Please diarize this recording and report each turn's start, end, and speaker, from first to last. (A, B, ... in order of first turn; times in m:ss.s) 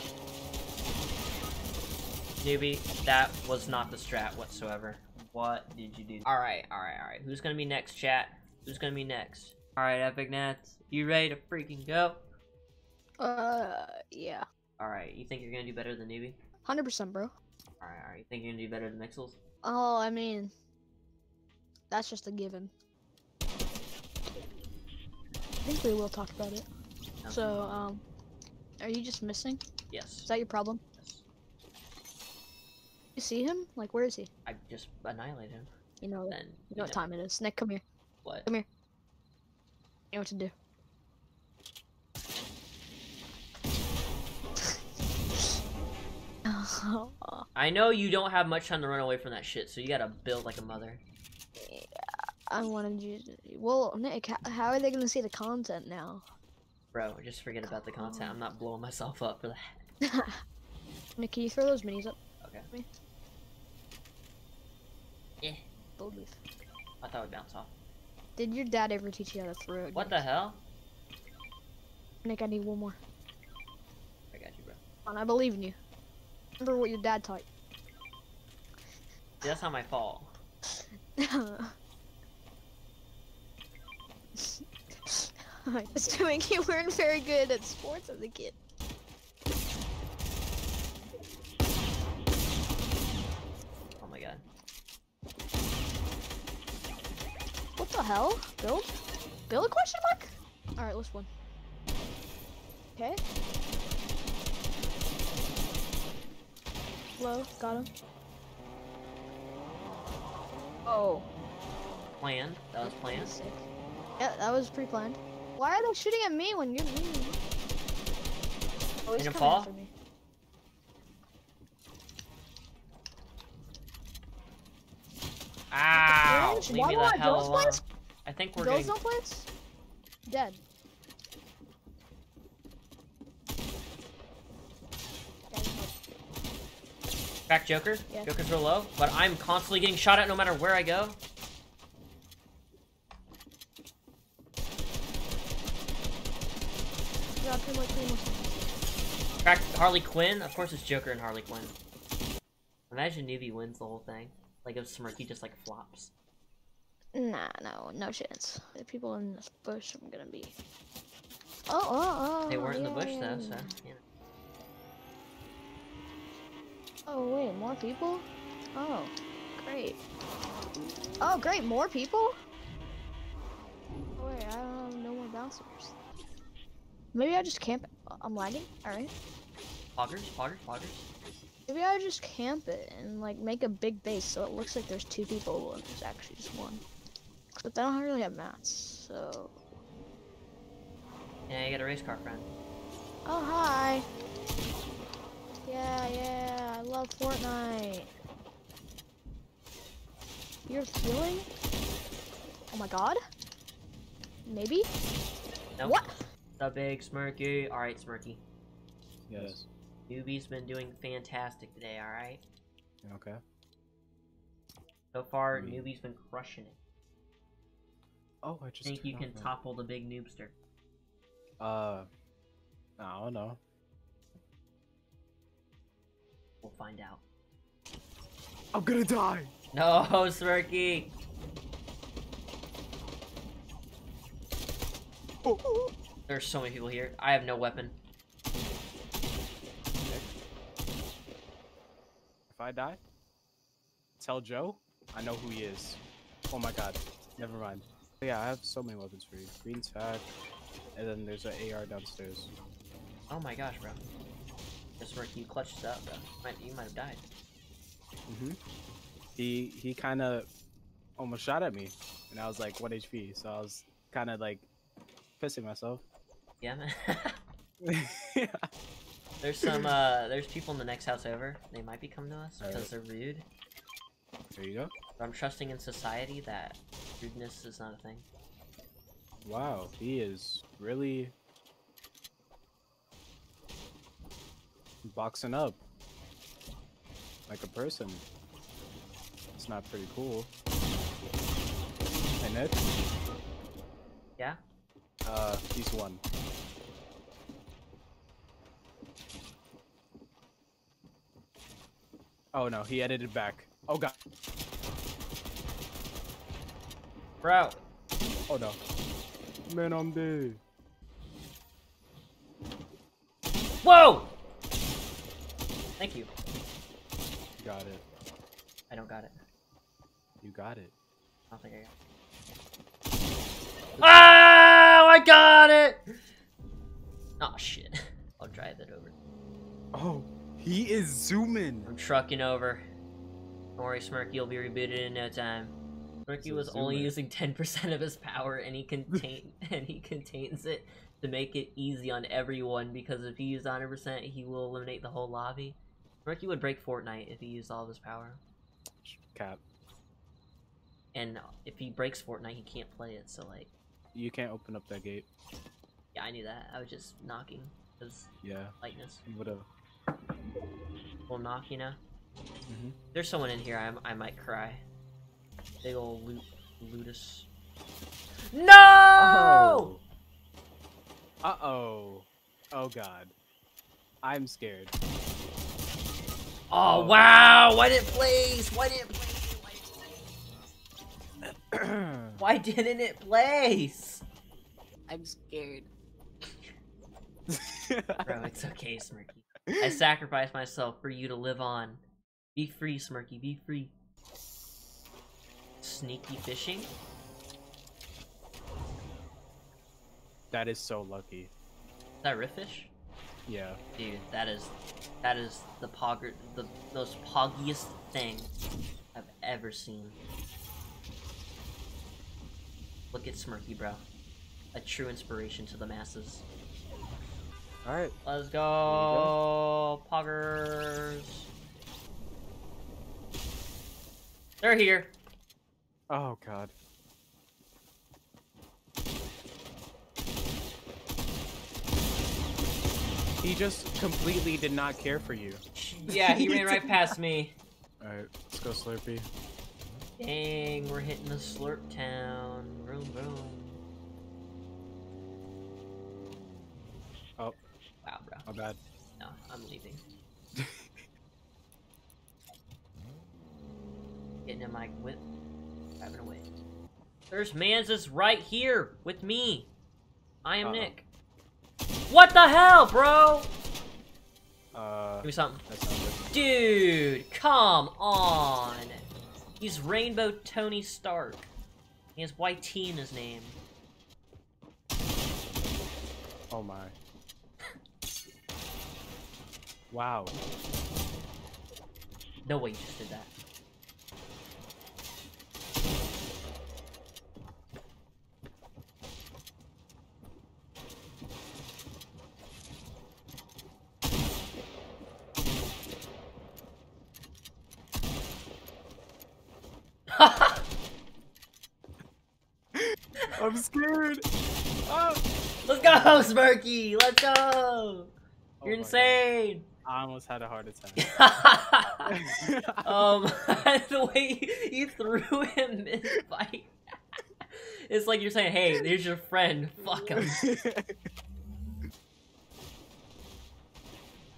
0:02.4-0:12.2 A
0:13.2-0:14.4 B
0:14.8-0:16.4 A
0:16.6-0:17.3 B
0:17.8-0:19.4 A
0:19.6-0:20.5 B
0:21.9-0:22.7 B
0:25.6-0:26.6 B
0:27.2-0:27.6 A
0:27.3-0:28.0 B
0:28.8-0:29.6 B
0:29.9-0:30.3 A
0:30.2-0:30.8 B
0:31.0-0:31.2 A
0:33.2-0:34.3 B
0:34.4-0:35.7 A
0:36.0-0:37.8 B
0:36.3-0:37.0 A
0:40.1-0:40.5 B
0:46.4-0:47.4 B
0:47.5-0:51.0 A
0:51.6-0:56.2 B
0:56.9-0:59.8 A
0:57.6-0:58.4 B
1:00.0-1:00.4 B
1:01.2-1:02.2 B
1:02.4-1:02.7 A
1:06.0-1:06.4 B
1:07.0-1:07.7 A
1:08.4-1:10.2 B
1:09.9-1:10.6 A
1:12.2-1:13.0 B
1:14.3-1:14.8 A
1:15.0-1:15.8 B
1:16.6-1:17.4 B
1:19.4-1:20.3 A
1:21.2-1:21.7 B
1:24.4-1:28.6 B
1:34.0-1:34.4 A
1:37.8-1:38.9 B
1:39.5-1:41.3 B
1:47.2-1:47.9 B
1:50.8-1:51.2 B
1:52.2-1:53.4 A
1:52.8-1:53.6 B
1:54.2-1:57.4 B
1:59.0-1:59.9 B
1:59.2-1:59.7 A
2:05.7-2:08.9 A
2:05.9-2:07.8 B
2:08.6-2:09.5 B
2:10.2-2:10.6 B
2:15.5-2:15.9 B
2:17.5-2:21.2 A
2:27.4-2:28.7 B
2:29.4-2:31.7 A
2:32.9-2:36.1 A
2:37.1-2:40.5 B
2:41.7-2:43.7 B
2:42.5-2:44.0 A
2:47.1-2:50.0 B
2:51.2-2:52.3 B
2:54.2-2:55.9 B
2:57.1-2:59.1 B
3:00.0-3:01.1 A
3:01.7-3:06.8 B
3:07.6-3:09.5 B
3:11.5-3:12.5 A
3:13.2-3:14.1 B
3:15.6-3:18.1 B
3:20.7-3:21.5 B
3:22.7-3:23.2 B
3:24.4-3:24.9 B
3:25.8-3:26.0 A
3:25.8-3:26.1 B
3:26.6-3:28.4 A
3:29.3-3:29.7 C
3:30.1-3:32.4 A
3:33.0-3:33.4 C
3:35.1-3:36.8 A
3:35.5-3:35.9 C
3:38.4-3:39.5 C
3:38.8-3:40.5 A
3:41.6-3:42.1 C
3:43.0-3:43.6 C
3:46.6-3:47.2 A
3:48.7-3:49.5 C
3:49.7-3:51.1 A
3:55.4-3:55.9 C
3:56.3-3:57.9 A
4:00.0-4:00.3 C
4:02.5-4:03.0 C
4:04.2-4:06.0 C
4:06.5-4:10.3 C
4:10.9-4:12.5 C
4:13.3-4:14.0 A
4:15.0-4:17.2 A
4:18.3-4:18.6 C
4:19.4-4:20.5 C
4:21.2-4:24.7 C
4:25.4-4:26.0 C
4:26.6-4:27.4 A
4:27.8-4:28.6 C
4:29.4-4:33.4 A
4:32.6-4:32.9 C
4:34.6-4:34.9 C
4:35.2-4:38.2 A
4:39.4-4:41.3 C
4:45.0-4:45.8 C
4:47.5-4:48.2 C
4:49.6-4:50.5 C
4:52.4-4:52.8 C
4:55.2-4:56.2 C
5:02.5-5:04.1 C
5:07.4-5:07.8 A
5:08.5-5:08.8 C
5:09.7-5:10.6 C
5:13.8-5:14.3 A
5:16.0-5:16.3 A
5:17.6-5:18.0 C
5:18.9-5:19.3 A
5:20.4-5:20.9 C
5:21.5-5:21.9 A
5:24.0-5:24.3 C
5:24.0-5:26.0 A
5:27.4-5:29.1 A
5:29.9-5:31.9 C
5:31.8-5:32.8 A
5:33.8-5:35.7 A
5:36.2-5:48.4 A
5:36.4-5:37.1 C
5:49.0-5:49.6 C
5:51.1-5:53.7 A
5:54.1-5:55.3 C
5:56.1-5:58.3 A
5:58.4-5:58.7 C
5:58.8-5:59.2 A
5:59.2-5:59.7 C
6:01.3-6:02.0 A
6:02.7-6:02.9 C
6:03.1-6:04.8 A
6:05.8-6:07.5 A
6:08.5-6:09.9 A
6:09.2-6:10.0 C
6:11.4-6:13.3 C
6:14.2-6:14.9 C
6:16.7-6:19.8 A
6:16.9-6:17.3 C
6:21.7-6:22.4 C
6:22.4-6:24.2 A
6:27.5-6:28.3 C
6:28.2-6:32.0 A
6:29.7-6:30.0 C
6:32.5-6:33.9 A
6:35.8-6:36.9 A
6:40.5-6:41.5 C
6:42.2-6:42.9 A
6:43.4-6:43.8 C
6:44.0-6:48.5 A
6:49.1-6:50.2 A
6:53.1-6:54.0 A
6:54.7-6:56.4 A
6:57.8-6:58.1 C
6:58.2-7:01.5 A
6:58.8-6:59.4 C
7:04.6-7:05.1 A
7:06.1-7:06.7 C
7:13.4-7:17.0 C
7:15.8-7:17.5 A
7:18.0-7:19.3 C
7:20.2-7:23.8 A
7:28.0-7:28.4 A
7:28.4-7:28.8 C
7:29.2-7:30.0 A
7:30.6-7:30.8 C
7:34.4-7:35.2 A
7:36.0-7:36.5 A
7:37.3-7:39.7 A
7:40.4-7:41.0 A
7:40.6-7:40.9 C
7:42.1-7:43.5 A
7:44.7-7:46.3 C
7:45.2-7:45.6 A
7:46.3-7:49.0 A
7:49.6-7:51.5 A
7:52.2-7:53.6 A
7:56.5-7:56.9 C
7:59.9-8:00.4 C
8:02.4-8:03.3 A
8:20.1-8:20.6 A
8:22.7-8:24.3 C
8:24.8-8:25.2 C
8:25.6-8:28.1 A
8:25.8-8:26.3 C
8:28.6-8:29.2 C
8:28.6-8:29.6 A
8:29.8-8:31.0 C
8:31.0-8:32.1 A
8:32.1-8:32.9 C
8:32.8-8:36.7 A
8:37.9-8:40.4 A
8:40.2-8:41.0 C